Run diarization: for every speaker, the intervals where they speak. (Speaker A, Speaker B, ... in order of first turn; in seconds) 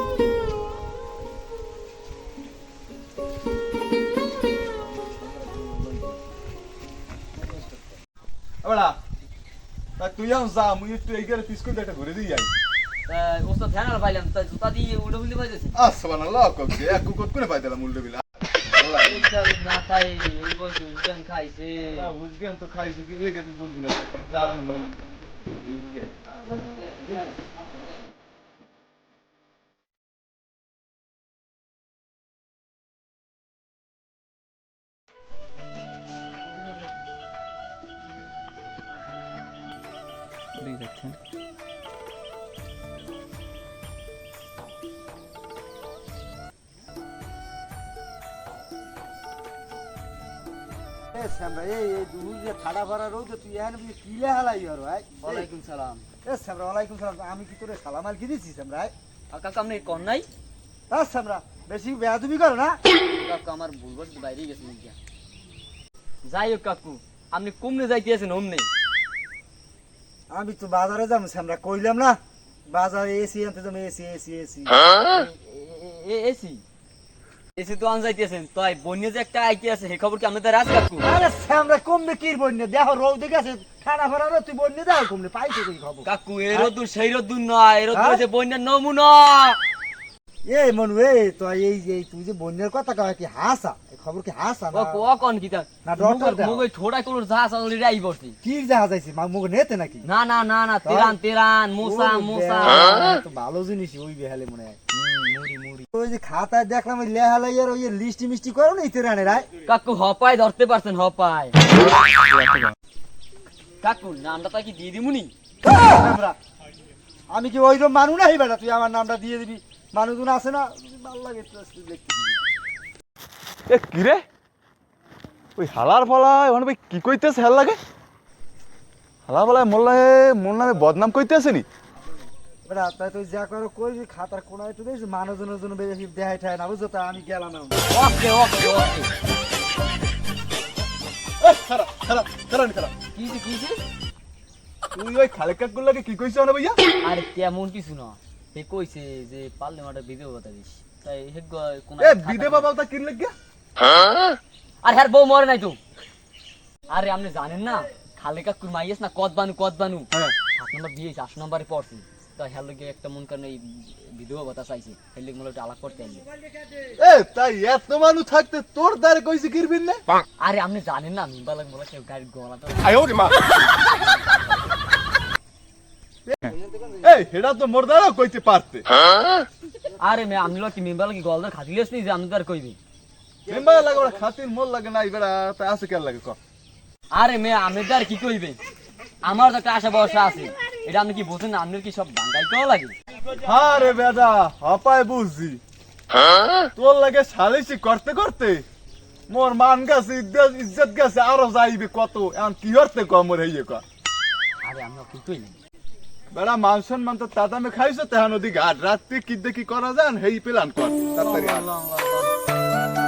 Speaker A: 5.2-6.0, 13.1-15.8, 19.0-22.1, 55.2-56.0, 59.3-60.3, 63.1-65.0, 66.2-68.7, 75.1-76.6, 77.5-81.1, 86.0-89.6, 94.7-98.4, 100.0-103.0, 104.9-105.8, 109.7-111.6, 113.8-115.3, 137.9-139.1, 143.1-143.8, 147.0-152.7, 154.8-155.8, 156.9-166.2, 170.4-173.4, 180.0-182.8, 187.2-188.6, 189.2-192.9, 204.6-205.6, 211.2-212.3
Speaker B: 8.6-8.9, 10.0-12.5, 15.8-19.2, 21.9-25.0, 25.6-26.1, 112.3-112.7, 123.7-124.2, 125.5-127.8, 129.3-131.7, 141.4-142.9, 144.9-146.8, 152.0-153.3, 167.0-170.0, 176.3-178.8, 183.5-186.4, 193.4-195.6, 196.8-198.6, 199.3-203.8, 206.3-211.7
Speaker C: 51.1-55.5, 56.2-58.9, 60.9-62.8, 70.3-74.8, 81.0-86.7, 87.9-88.2, 90.5-95.0, 95.8-96.6, 98.4-100.0, 100.8-101.2, 101.8-104.8, 105.9-109.5, 115.6-116.4, 117.3-122.4, 132.6-137.8, 176.5-177.1, 183.5-184.1